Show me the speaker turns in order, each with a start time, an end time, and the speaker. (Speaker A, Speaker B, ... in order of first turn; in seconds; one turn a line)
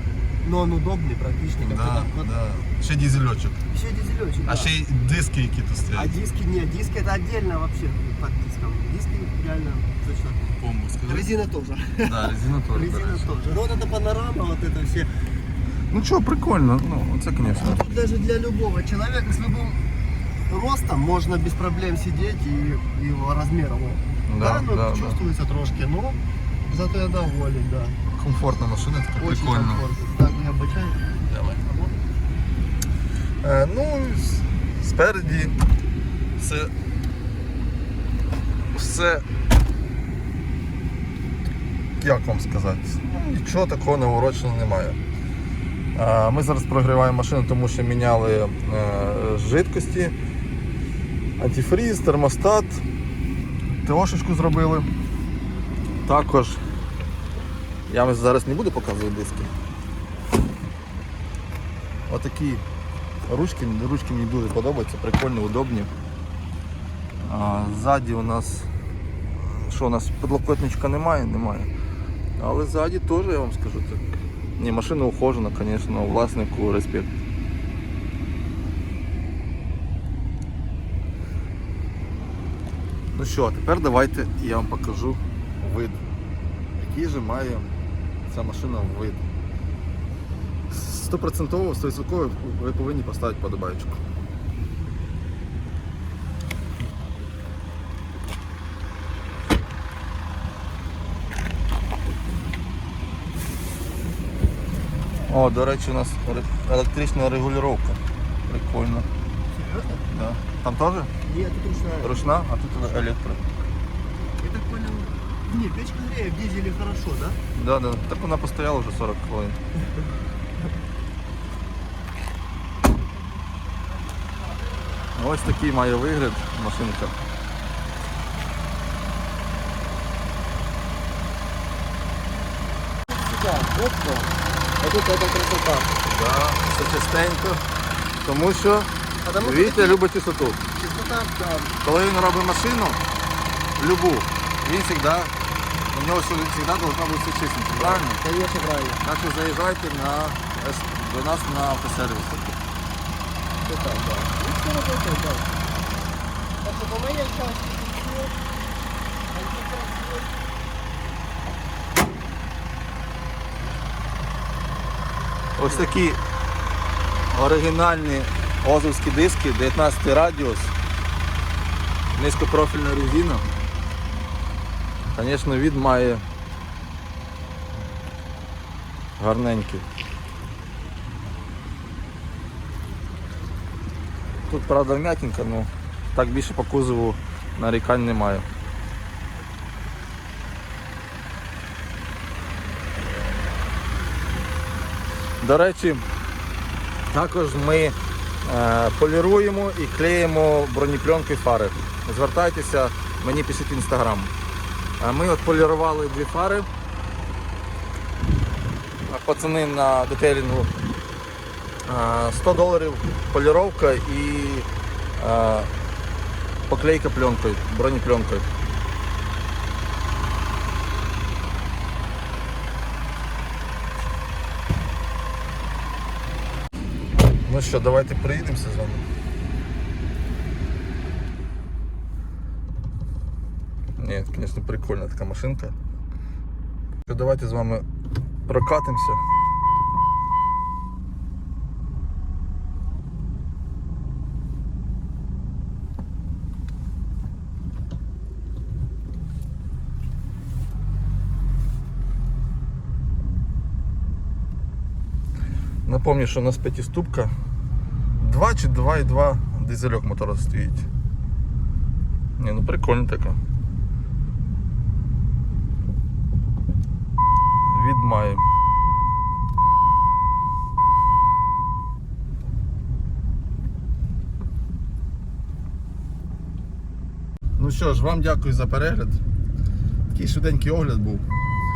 Speaker A: 0.4-2.3
Speaker B: 1.6-3.6
Speaker A: 3.7-4.7
Speaker B: 4.5-6.1
Speaker A: 5.9-10.4
Speaker B: 10.6-11.3
Speaker A: 11.1-15.1
Speaker B: 12.0-13.3
Speaker B: 15.9-17.8
Speaker A: 17.5-19.8
Speaker A: 20.4-28.0
Speaker B: 24.3-25.2
Speaker B: 28.1-29.8
Speaker A: 29.2-31.9
Speaker B: 31.3-31.6
Speaker B: 33.4-35.5
Speaker B: 36.4-36.7
Speaker B: 38.7-39.2
Speaker B: 42.0-45.0
Speaker B: 45.9-50.1
Speaker B: 51.4-52.8
Speaker B: 53.8-54.9
Speaker B: 56.0-56.6
Speaker B: 57.9-59.5
Speaker B: 62.1-62.6
Speaker B: 63.2-65.9
Speaker B: 67.2-68.7
Speaker B: 69.3-71.7
Speaker B: 72.4-77.1
Speaker B: 83.1-86.0
Speaker B: 86.8-87.7
Speaker B: 88.3-89.2
Speaker B: 90.7-94.0
Speaker B: 105.3-109.1
Speaker A: 109.5-110.1
Speaker B: 110.1-111.1
Speaker A: 111.2-112.2
Speaker B: 112.0-113.4
Speaker A: 114.4-117.4
Speaker B: 117.5-119.6
Speaker B: 125.1-127.2
Speaker A: 133.1-135.9
Speaker B: 136.0-137.6
Speaker B: 138.2-140.6
Speaker A: 139.2-140.0
Speaker A: 140.7-141.7
Speaker B: 141.8-143.0
Speaker B: 143.8-145.3
Speaker B: 145.9-148.2
Speaker A: 147.8-149.0
Speaker B: 149.0-152.6
Speaker A: 153.6-155.6
Speaker A: 156.6-158.3
Speaker A: 159.3-160.4
Speaker B: 165.6-166.2
Speaker B: 167.3-170.7
Speaker B: 172.1-173.4
Speaker B: 175.1-176.2
Speaker B: 179.2-179.8
Speaker B: 184.5-188.4
Speaker B: 195.4-196.0
Speaker B: 197.1-204.3
Speaker B: 205.0-206.7
Speaker B: 209.1-210.7
Speaker B: 211.8-215.7
Speaker B: 216.7-218.5
Speaker B: 227.4-229.0
Speaker B: 234.0-235.7
Speaker B: 237.0-237.8
Speaker B: 238.4-239.2
Speaker B: 255.8-257.3
Speaker B: 258.2-260.9
Speaker B: 262.4-263.4
Speaker B: 267.6-268.4
Speaker B: 277.6-279.2
Speaker B: 280.1-281.2